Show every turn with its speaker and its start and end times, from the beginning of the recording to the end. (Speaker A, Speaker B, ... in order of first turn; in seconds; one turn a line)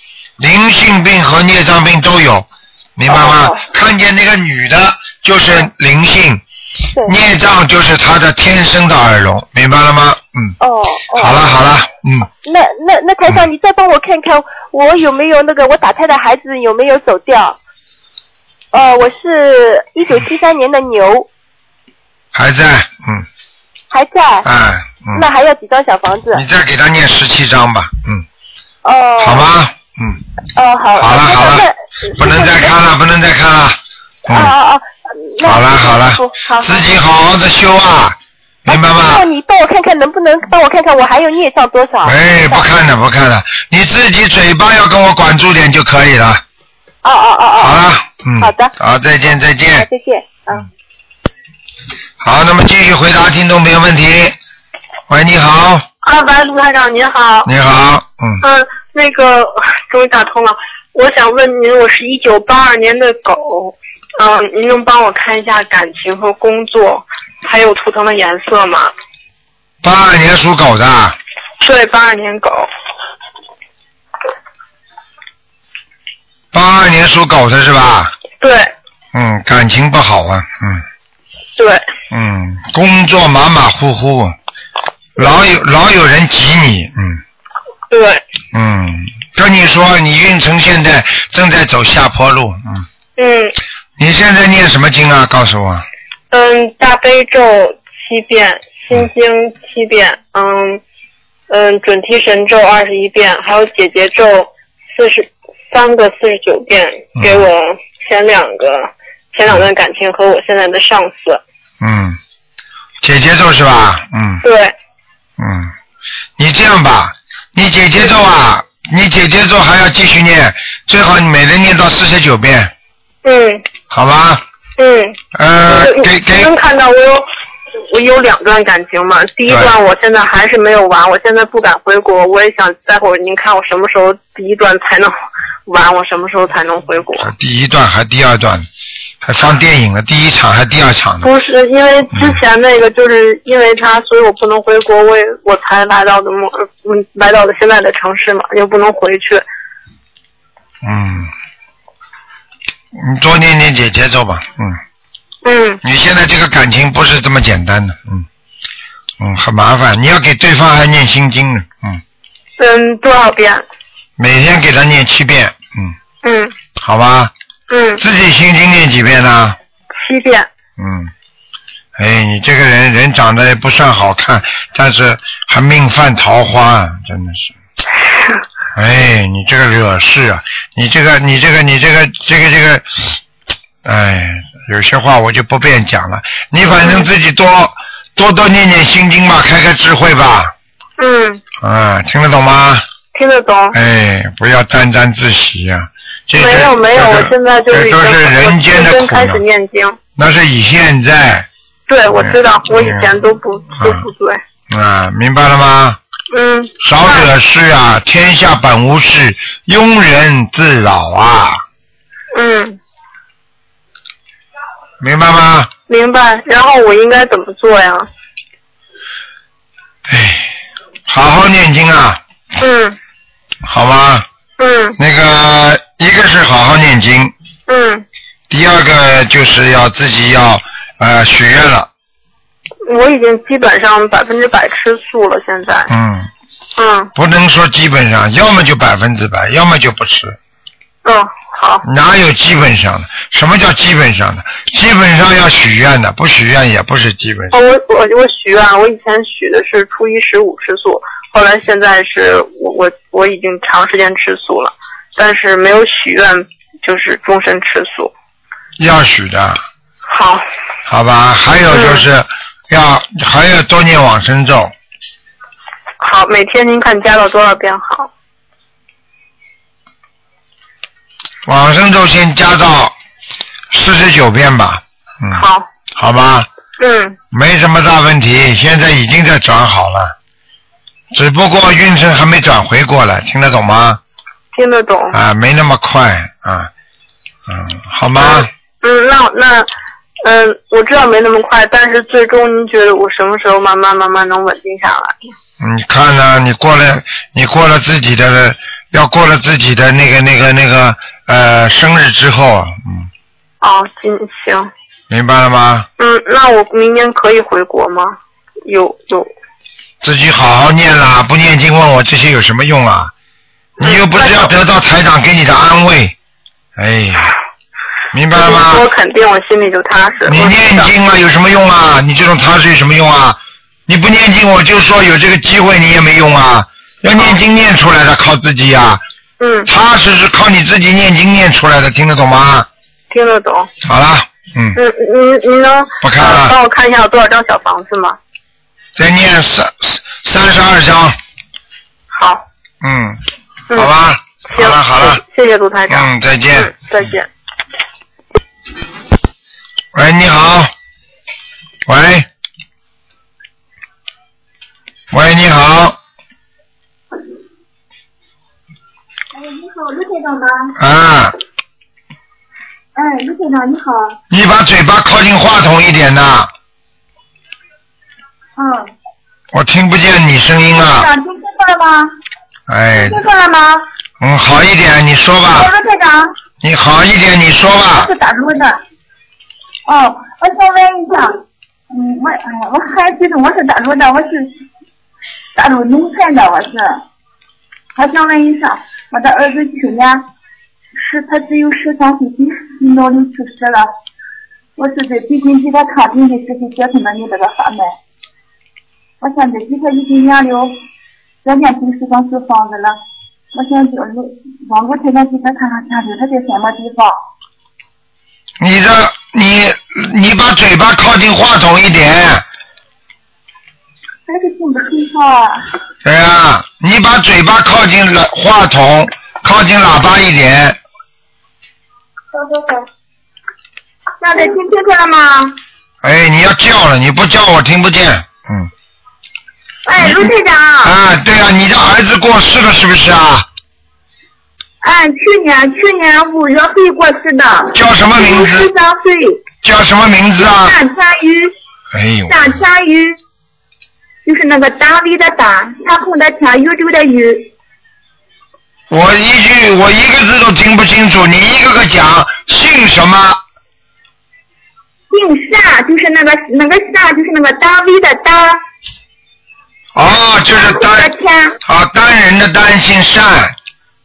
Speaker A: 0.4-6.4
Speaker B: 3.1-3.6
Speaker A: 7.0-10.6
Speaker B: 10.6-11.6
Speaker A: 11.2-12.3
Speaker B: 12.3-17.6
Speaker B: 18.7-21.3
Speaker A: 22.3-23.3
Speaker B: 23.9-24.5
Speaker A: 24.4-25.3
Speaker B: 25.1-26.4
Speaker A: 26.3-28.2
Speaker B: 28.8-29.5
Speaker A: 29.2-30.2
Speaker B: 30.6-32.8
Speaker A: 31.0-34.5
Speaker B: 34.3-36.9
Speaker A: 35.4-39.2
Speaker B: 38.7-42.7
Speaker A: 42.0-46.4
Speaker B: 47.0-47.8
Speaker A: 47.6-49.9
Speaker B: 48.4-48.7
Speaker B: 49.8-50.7
Speaker A: 52.2-54.4
Speaker A: 55.1-55.9
Speaker C: 56.0-57.5
Speaker A: 57.5-58.4
Speaker C: 58.4-68.9
Speaker A: 69.8-71.2
Speaker C: 71.6-72.7
Speaker A: 76.5-78.1
Speaker C: 78.4-78.7
Speaker A: 79.1-80.8
Speaker C: 81.6-81.9
Speaker A: 82.1-84.3
Speaker A: 85.2-87.2
Speaker C: 87.9-88.2
Speaker A: 88.5-92.9
Speaker C: 93.2-93.5
Speaker A: 94.0-95.8
Speaker C: 96.3-100.8
Speaker C: 101.5-111.4
Speaker A: 107.2-107.5
Speaker A: 111.8-112.2
Speaker A: 113.0-114.4
Speaker C: 114.4-114.7
Speaker A: 115.4-115.7
Speaker A: 116.4-122.7
Speaker C: 123.2-123.6
Speaker A: 123.9-124.4
Speaker C: 124.8-125.2
Speaker A: 125.3-126.5
Speaker C: 125.7-127.3
Speaker C: 127.8-135.1
Speaker A: 129.5-129.7
Speaker C: 135.7-137.3
Speaker A: 137.2-138.7
Speaker A: 139.2-141.3
Speaker C: 141.2-149.4
Speaker A: 142.1-142.4
Speaker A: 150.8-151.3
Speaker A: 152.9-154.8
Speaker C: 155.4-155.8
Speaker A: 155.8-158.3
Speaker A: 159.2-162.0
Speaker C: 162.6-163.6
Speaker A: 164.2-165.9
Speaker C: 166.2-166.5
Speaker A: 166.8-167.3
Speaker C: 167.7-168.0
Speaker A: 168.0-169.6
Speaker C: 170.0-170.5
Speaker A: 170.8-171.1
Speaker A: 172.0-177.5
Speaker A: 178.8-183.2
Speaker A: 183.8-190.5
Speaker C: 186.8-187.1
Speaker C: 191.0-191.4
Speaker A: 191.6-192.8
Speaker C: 193.1-193.8
Speaker A: 193.7-199.4
Speaker C: 196.4-200.0
Speaker A: 200.2-201.5
Speaker C: 201.9-204.4
Speaker A: 202.1-203.1
Speaker A: 203.8-204.0
Speaker A: 204.7-206.0
Speaker C: 206.3-207.3
Speaker A: 206.8-211.6
Speaker C: 212.3-212.8
Speaker A: 215.0-215.7
Speaker C: 215.9-218.1
Speaker A: 220.1-220.5
Speaker A: 221.1-222.2
Speaker C: 222.6-223.0
Speaker A: 223.7-224.3
Speaker C: 224.6-225.0
Speaker A: 225.0-227.3
Speaker C: 227.7-228.1
Speaker A: 228.5-231.9
Speaker C: 232.9-235.9
Speaker A: 235.9-236.3
Speaker C: 236.8-237.1
Speaker A: 237.2-240.4
Speaker C: 241.1-241.8
Speaker A: 241.8-247.6
Speaker C: 247.5-258.1
Speaker A: 258.8-259.6
Speaker C: 260.1-260.4
Speaker A: 260.9-264.7
Speaker C: 261.7-262.1
Speaker C: 266.0-268.1
Speaker A: 271.5-272.9
Speaker A: 273.7-276.5
Speaker C: 275.3-275.7
Speaker C: 276.8-277.2
Speaker A: 277.3-280.1
Speaker A: 281.1-284.0
Speaker C: 284.6-285.2
Speaker A: 285.1-286.7
Speaker A: 287.5-288.5
Speaker C: 288.2-289.7
Speaker C: 290.2-295.1
Speaker A: 295.6-303.1
Speaker C: 303.6-304.7
Speaker A: 305.1-305.9
Speaker C: 306.0-309.3
Speaker A: 310.0-313.1
Speaker A: 313.8-316.1
Speaker C: 313.8-314.5
Speaker A: 316.8-317.3
Speaker A: 318.1-318.9
Speaker C: 318.3-320.9
Speaker A: 320.3-329.0
Speaker C: 329.4-329.7
Speaker A: 329.7-332.7
Speaker C: 333.1-333.7
Speaker A: 333.8-334.8
Speaker C: 334.8-338.2
Speaker A: 336.0-336.6
Speaker A: 339.0-341.2
Speaker C: 342.1-342.4
Speaker A: 342.8-343.2
Speaker A: 343.7-345.2
Speaker C: 344.5-347.3
Speaker A: 345.9-346.7
Speaker A: 349.9-350.7
Speaker A: 351.9-352.3
Speaker A: 355.1-356.0
Speaker D: 359.3-360.8
Speaker A: 360.8-361.3
Speaker D: 362.9-364.2
Speaker A: 364.3-366.5
Speaker D: 368.6-368.9
Speaker A: 369.5-371.1
Speaker D: 370.8-372.1
Speaker A: 372.7-373.2
Speaker D: 372.9-373.9
Speaker A: 374.2-375.7
Speaker D: 375.5-376.3
Speaker A: 376.6-378.1
Speaker D: 377.9-378.8
Speaker D: 379.9-381.4
Speaker D: 381.9-384.5
Speaker D: 385.6-387.0
Speaker D: 388.0-390.3
Speaker D: 390.9-393.9
Speaker D: 394.8-398.0
Speaker D: 399.2-400.8
Speaker D: 401.4-403.0
Speaker D: 403.5-407.2
Speaker A: 408.6-412.4
Speaker D: 414.3-415.7
Speaker A: 416.0-420.8
Speaker D: 422.3-422.8
Speaker D: 424.2-425.6
Speaker A: 426.0-428.7
Speaker D: 429.9-430.9
Speaker A: 430.0-433.5
Speaker D: 434.8-439.4
Speaker A: 437.7-438.7
Speaker A: 439.6-440.8
Speaker D: 440.4-441.5
Speaker A: 441.9-442.6
Speaker D: 442.3-443.2
Speaker D: 444.2-447.5
Speaker A: 448.9-453.4
Speaker D: 455.1-458.6
Speaker A: 459.9-461.1
Speaker D: 460.5-461.6
Speaker A: 461.6-463.6